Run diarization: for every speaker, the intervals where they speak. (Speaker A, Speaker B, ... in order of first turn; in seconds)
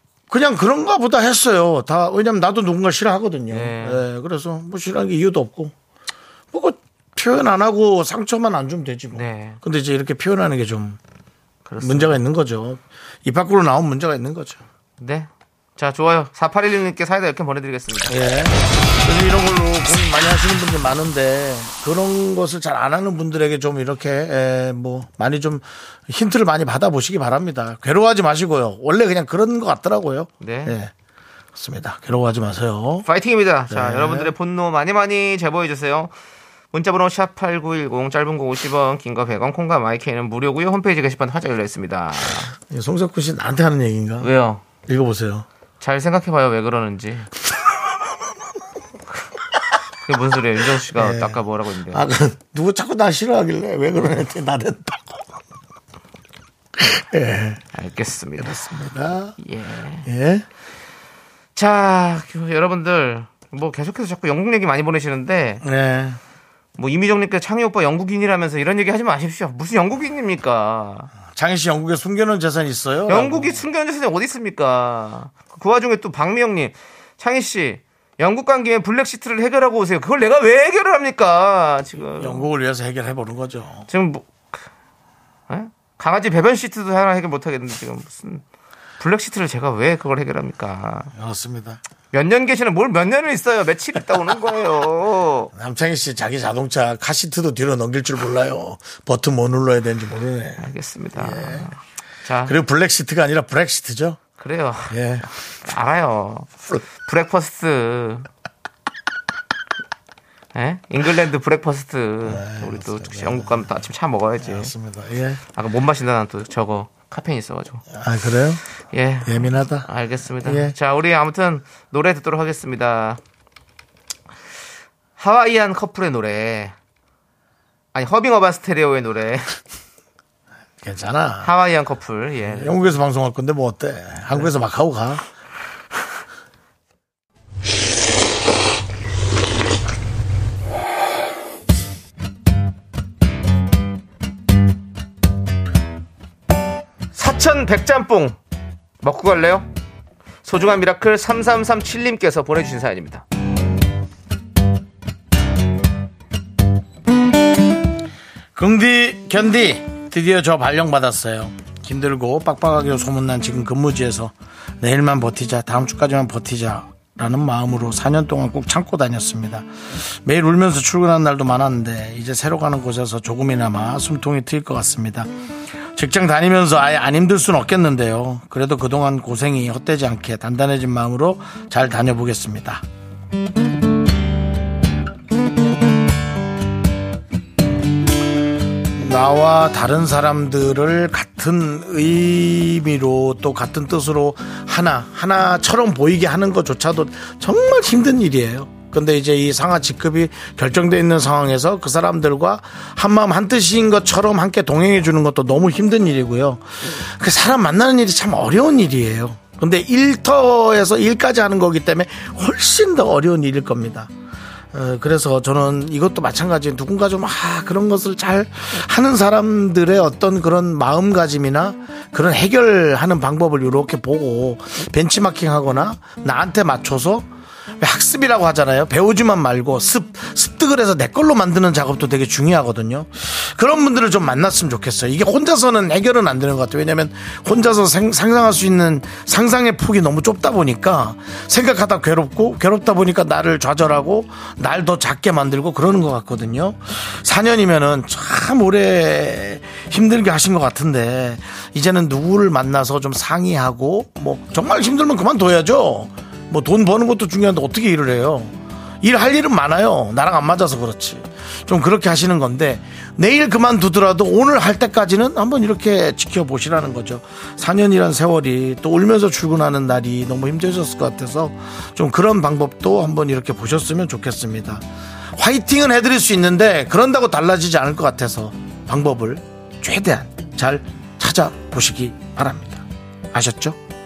Speaker A: 0.3-5.7, 6.5-11.0, 11.8-14.6, 18.1-30.9, 31.6-33.1, 33.7-34.3, 42.7-44.3, 44.9-45.5, 50.9-55.3, 56.8-57.6, 58.4-59.4, 60.1-60.5, 65.6-66.2, 71.3-73.6, 82.2-83.9, 91.1-91.8, 95.5-101.7, 102.5-104.2, 104.9-105.3, 112.2-113.8, 114.4-115.4, 117.9-118.6, 119.2-119.9, 120.4-120.8, 130.8-131.5, 132.5-135.2, 158.6-175.3, 175.9-182.8, 188.9-214.1, 214.7-227.3, 227.8-283.8
Speaker B: 3.5-4.0, 9.1-9.6, 11.7-12.2, 15.0-18.2, 30.4-30.8, 33.0-36.1, 36.7-42.5, 44.2-44.6, 45.8-47.3, 50.1-52.0, 57.7-58.6, 59.4-60.1, 61.6-65.6, 66.8-71.1, 73.1-82.5, 83.9-84.6, 85.5-88.4, 89.0-91.1, 92.1-95.5, 100.6-102.5, 104.4-106.5, 107.0-108.3, 110.5-114.7, 115.5-117.8, 118.9-123.2, 125.2-126.8, 127.9-129.6, 131.4-132.8, 147.1-148.4, 149.0-149.7, 150.4-153.2